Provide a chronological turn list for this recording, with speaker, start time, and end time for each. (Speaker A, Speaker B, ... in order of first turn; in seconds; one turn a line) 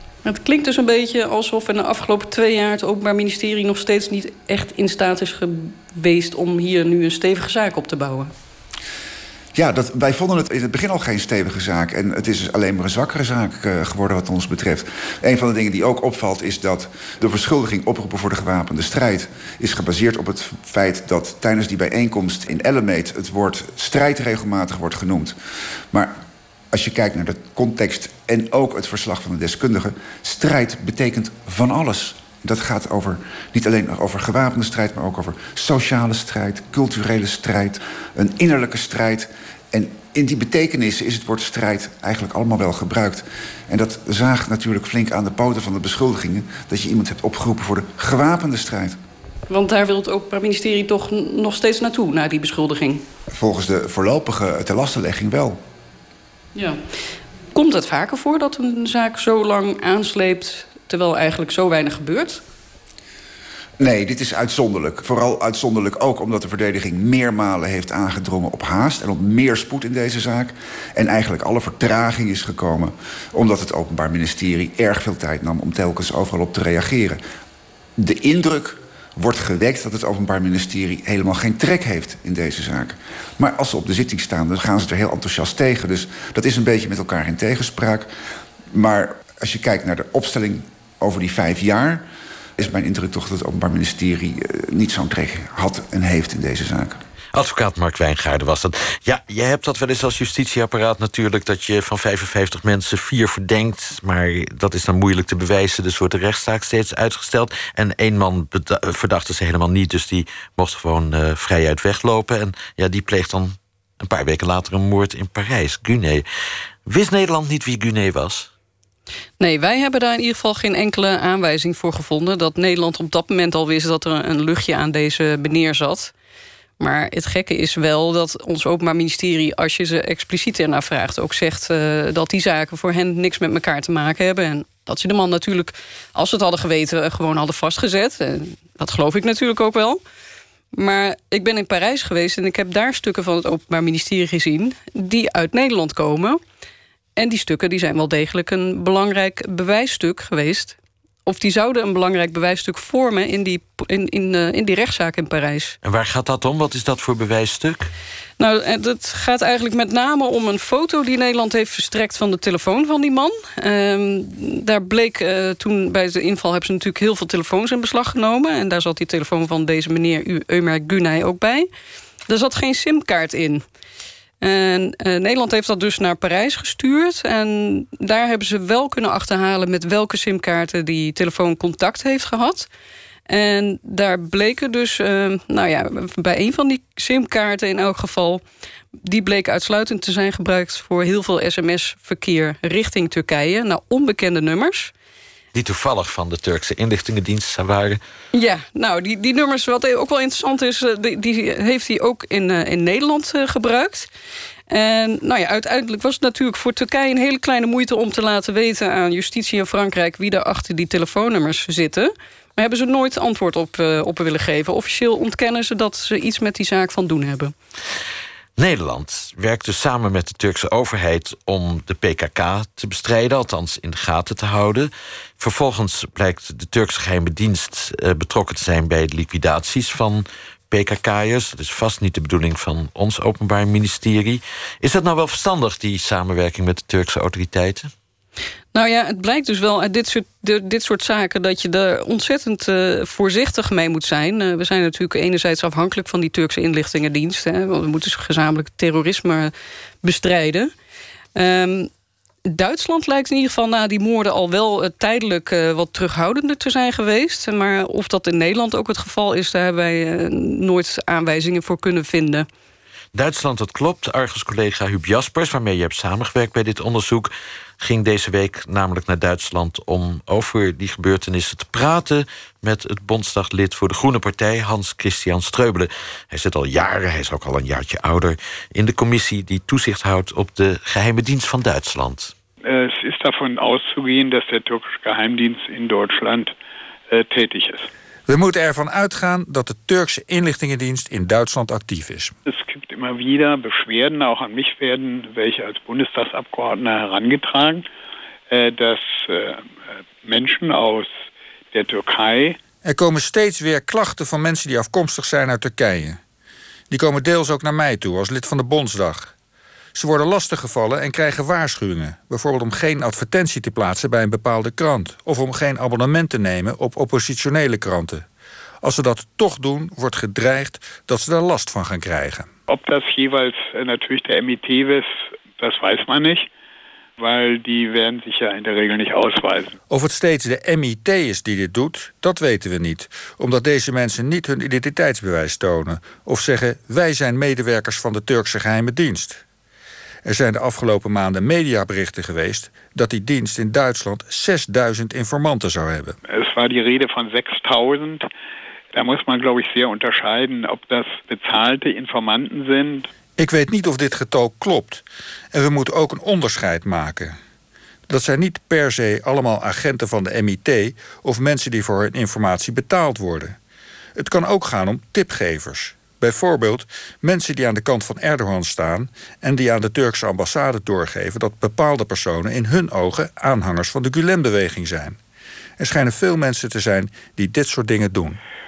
Speaker A: 0.2-8.3
Speaker B: 9.6-25.4
Speaker B: 26.7-49.0
Speaker A: 49.5-53.0
Speaker B: 53.4-55.6
Speaker A: 56.5-56.8
Speaker A: 57.5-62.4
Speaker B: 63.8-77.2
Speaker B: 78.0-88.1
Speaker B: 88.7-92.0
Speaker B: 92.6-97.0
Speaker C: 97.3-116.2
Speaker C: 116.9-118.5
Speaker A: 119.4-126.1
Speaker A: 126.8-140.0
Speaker A: 140.8-146.4
Speaker A: 147.2-155.8
Speaker C: 155.8-157.9
Speaker A: 158.4-171.7
Speaker A: 172.3-173.6
Speaker A: 174.4-182.7
Speaker A: 183.3-188.4
Speaker A: 189.0-194.9
Speaker C: 195.5-198.0
Speaker A: 198.3-204.1
Speaker A: 204.7-217.5
Speaker C: 218.6-237.9
Speaker A: 238.7-249.5
Speaker A: 250.0-250.7
Speaker A: 251.3-251.9
Speaker A: 252.5-262.5
Speaker C: 263.1-282.3
Speaker D: 282.6-286.5
Speaker D: 287.1-287.9
Speaker E: 288.3-292.3
Speaker D: 292.5-297.8
Speaker D: 298.5-301.1
Speaker D: 301.7-302.6
Speaker E: 302.9-306.2
Speaker E: 306.9-309.3
Speaker E: 309.9-318.2
Speaker E: 318.8-322.5
Speaker D: 322.7-326.5
Speaker D: 327.2-329.8
Speaker E: 329.9-339.4
Speaker E: 340.2-346.1
Speaker D: 346.3-348.3
Speaker D: 348.9-353.1
Speaker E: 353.4-357.4
Speaker E: 358.1-363.6
Speaker E: 364.2-375.2
Speaker E: 375.8-378.4